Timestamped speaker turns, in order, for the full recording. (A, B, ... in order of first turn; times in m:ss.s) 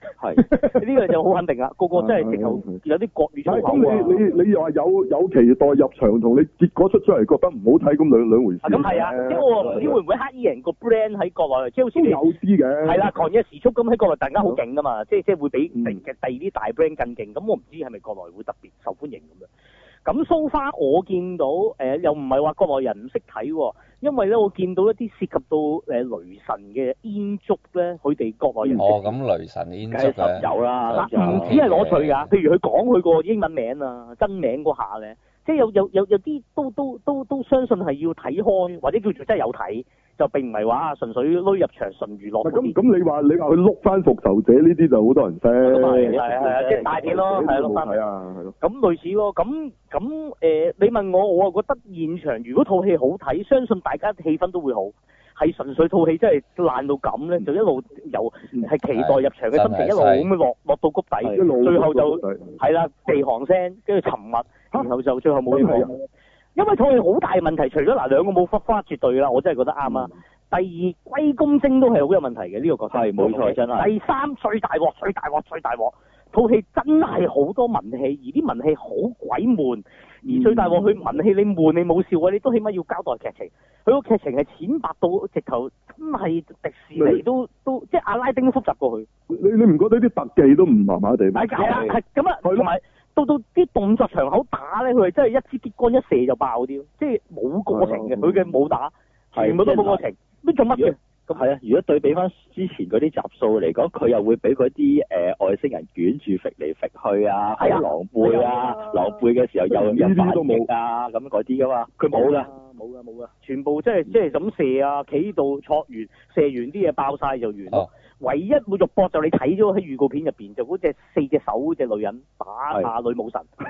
0:00.2-0:00.4 A
0:00.4-0:04.2 B
0:01.9-0:02.8 C
0:03.4-0:10.0 C
0:08.6-0:12.2 B
0:11.9-0:13.1 C
0:12.8-0:19.5 B
0:15.7-0:16.0 C
0:20.0-0:29.1 B
0:28.8-0:32.3 D
0:29.9-0:32.1 A
0:30.9-0:42.8 B
0:42.4-0:48.5 C
0:45.6-0:48.0 B
0:45.8-0:47.2 A
0:48.6-1:29.1 B
0:58.9-1:00.3 D
1:01.3-1:02.6 C
1:05.5-1:05.9 C
1:12.9-1:13.9 A
1:20.2-1:20.9 C
1:27.0-1:27.2 C
1:29.3-1:31.5 C
1:31.3-1:41.4 B
1:31.6-1:32.0 A
1:37.7-1:38.5 C
1:39.3-1:40.0 A
1:40.8-1:52.5 A
1:47.6-1:49.2 B
1:49.7-1:50.7 C
1:52.1-2:03.4 B